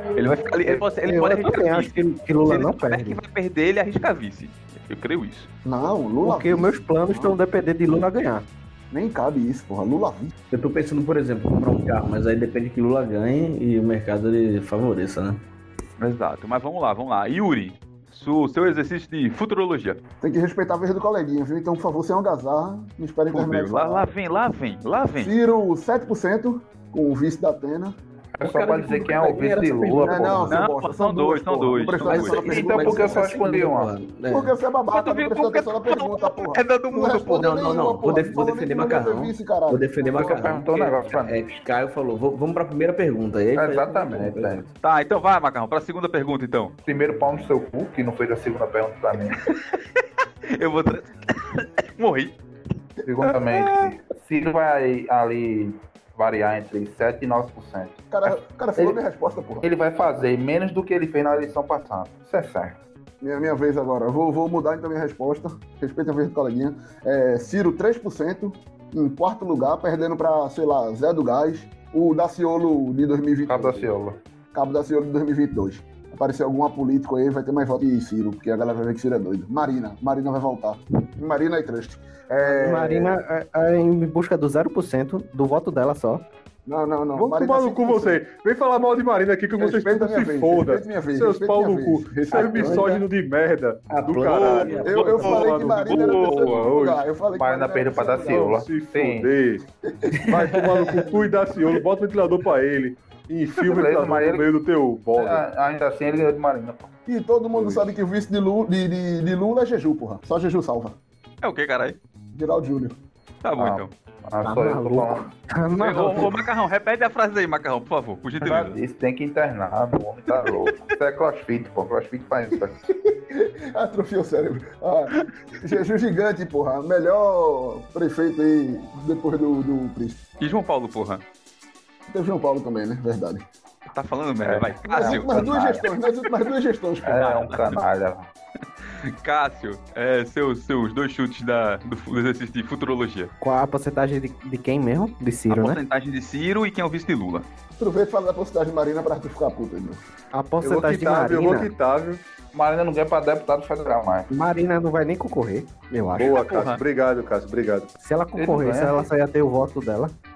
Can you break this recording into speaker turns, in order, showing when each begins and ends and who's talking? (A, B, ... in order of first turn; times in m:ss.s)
0:00.2-0:05.5 A
0:00.6-0:00.9 B
0:01.1-0:03.2 C
0:05.7-0:06.8 D
0:06.2-0:08.4 C
0:08.9-0:10.3 D
0:10.5-0:15.4 E
0:16.0-0:20.0 A
0:20.2-0:24.1 D
0:23.3-0:25.3 A
0:25.2-0:28.0 D
0:28.4-0:30.6 B
0:28.4-0:30.6 E
0:30.0-0:33.3 D
0:30.5-0:32.5 A
0:32.0-0:34.6 E
0:32.2-0:33.9 B
0:34.3-0:40.5 D
0:34.9-0:37.7 A
0:37.2-0:44.7 E
0:40.2-0:41.4 B
0:40.4-0:41.0 A
0:43.6-0:44.7 B
0:44.8-0:46.8 A
0:46.9-0:49.4 B
0:49.4-0:49.8 A
0:50.5-0:52.3 A
0:53.0-0:59.0 B
0:58.1-0:59.7 D
0:59.6-1:02.8 B
1:03.2-1:13.9 D
1:13.5-1:14.2 B
1:14.5-1:23.2 D
1:22.4-1:26.2 C
1:26.7-1:28.2 D
1:27.2-1:37.1 F
1:29.6-1:33.0 D
1:32.3-1:33.0 E
1:33.9-1:35.6 E
1:34.6-1:38.5 D
1:35.9-1:36.7 A
1:37.3-1:39.3 B
1:38.2-1:39.6 F
1:39.9-1:40.4 D
1:40.2-1:45.4 F
1:40.3-1:41.0 E
1:43.6-1:44.5 B
1:45.2-1:46.9 B
1:47.1-1:51.0 D
1:47.6-1:47.8 F
1:51.4-1:52.0 A
1:52.3-1:53.0 D
1:53.4-1:53.9 A
1:53.6-1:55.3 B
1:54.4-1:56.5 C
1:55.8-1:58.8 A
1:58.4-2:02.8 B
2:00.4-2:00.7 A
2:03.1-2:10.2 D
2:10.4-2:11.2 A
2:12.1-2:13.5 D
2:13.9-2:15.8 A
2:14.4-2:15.8 B
2:14.9-2:17.2 D
2:17.0-2:18.3 B
2:17.1-2:17.8 A
2:18.9-2:23.3 A
2:23.4-2:25.8 C
2:25.5-2:27.5 A
2:27.8-2:30.0 D
2:30.3-2:31.7 C
2:30.6-2:32.2 F
2:32.5-2:34.3 B
2:34.3-2:36.4 C
2:36.2-2:37.9 F
2:36.2-2:36.8 A
2:38.0-2:40.1 C
2:38.4-2:39.1 B